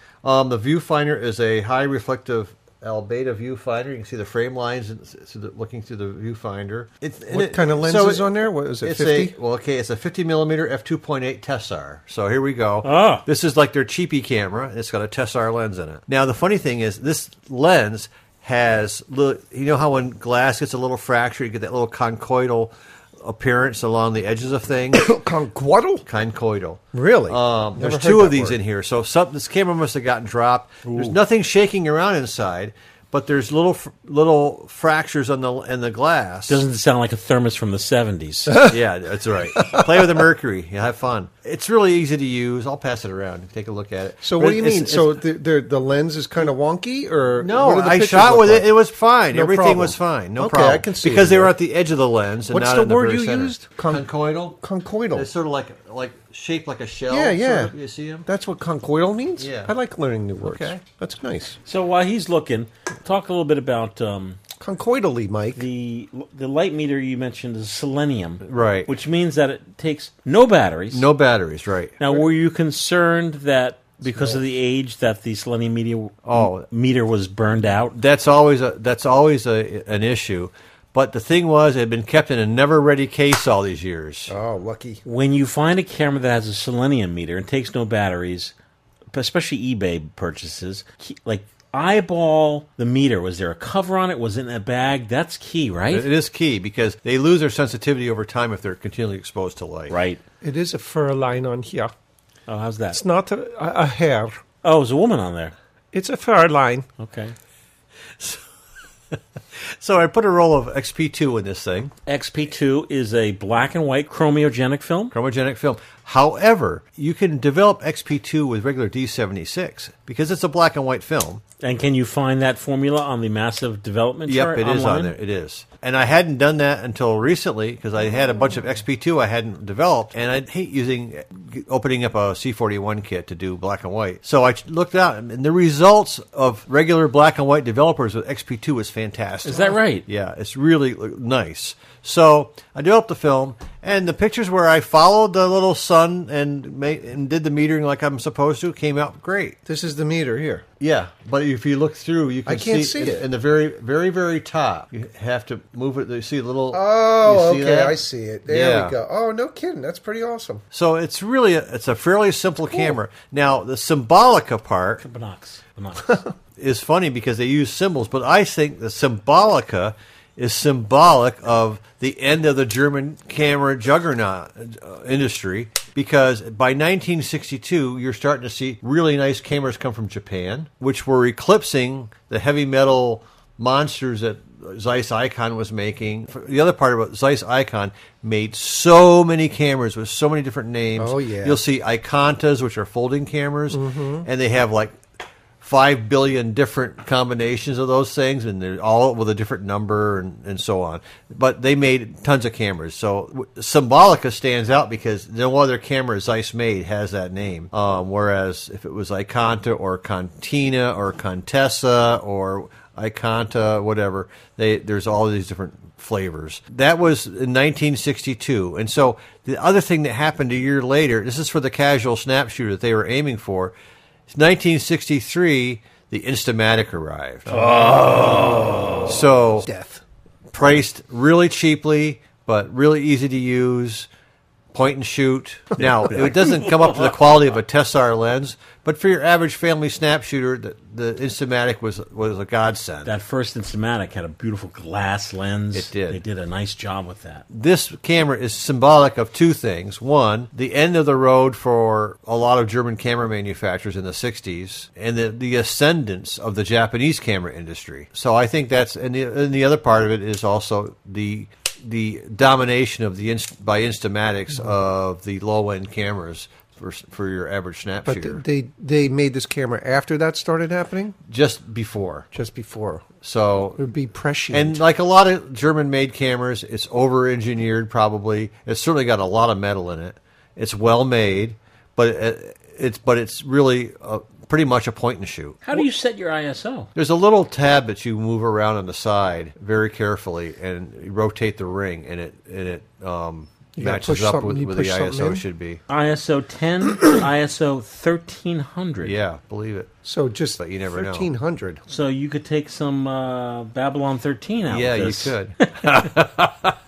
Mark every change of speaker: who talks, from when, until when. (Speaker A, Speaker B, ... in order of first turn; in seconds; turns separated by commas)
Speaker A: 0.2-25.1, Speaker B: 7.3-9.3, Speaker C: 12.8-13.2, Speaker B: 24.9-26.0, Speaker A: 26.1-36.6, Speaker B: 26.9-28.6, Speaker C: 36.5-38.7, Speaker A: 38.7-45.2, Speaker B: 44.2-48.7, Speaker A: 47.4-54.6, Speaker B: 49.3-51.5, Speaker B: 52.5-55.3, Speaker A: 55.1-58.3, Speaker B: 57.1-57.7, Speaker B: 58.2-61.6, Speaker A: 59.4-59.7, Speaker A: 60.4-60.8, Speaker C: 61.6-64.4, Speaker B: 64.6-65.7, Speaker C: 65.5-71.1, Speaker A: 68.4-68.9, Speaker A: 70.9-72.0, Speaker C: 72.0-78.0, Speaker B: 74.1-74.4, Speaker A: 76.2-76.7, Speaker A: 77.9-84.3, Speaker B: 84.3-85.0, Speaker C: 85.0-88.5, Speaker C: 89.1-96.1, Speaker A: 95.9-100.0, Speaker C: 99.9-100.2, Speaker B: 100.4-101.9, Speaker C: 102.5-103.0, Speaker B: 102.9-104.4, Speaker C: 104.6-105.5, Speaker B: 105.9-106.9, Speaker C: 107.0-107.3, Speaker A: 108.2-108.4, Speaker A: 109.1-111.9, Speaker C: 112.0-115.1, Speaker A: 115.1-121.4, Speaker C: 121.6-125.1, Speaker A: 124.3-149.6, Speaker C: 139.4-140.0, Speaker B: 149.7-150.6, Speaker A: 150.8-158.9, Speaker B: 152.4-153.2, Speaker B: 156.7-160.6, Speaker A: 160.7-165.0, Speaker C: 165.0-166.2, Speaker A: 166.6-195.0, Speaker B: 191.0-191.6, Speaker B: 193.7-194.3, Speaker A: 195.6-223.8, Speaker A: 224.3-227.6, Speaker B: 227.5-229.1, Speaker C: 227.7-228.8, Speaker A: 229.1-229.7, Speaker B: 229.6-230.0, Speaker A: 230.5-234.1, Speaker A: 234.7-243.1, Speaker C: 235.8-237.2, Speaker C: 243.0-247.4, Speaker A: 245.7-246.2, Speaker A: 247.5-268.4, Speaker B: 268.1-271.1, Speaker A: 271.3-272.3, Speaker B: 272.3-273.0, Speaker A: 273.2-273.8, Speaker B: 273.8-274.8, Speaker A: 274.5-285.8, Speaker C: 285.6-286.9, Speaker A: 286.9-295.8, Speaker B: 293.8-295.4, Speaker C: 295.9-299.1, Speaker A: 299.0-299.9, Speaker B: 300.0-301.8, Speaker A: 300.6-301.3, Speaker C: 301.9-306.1, Speaker A: 304.7-306.7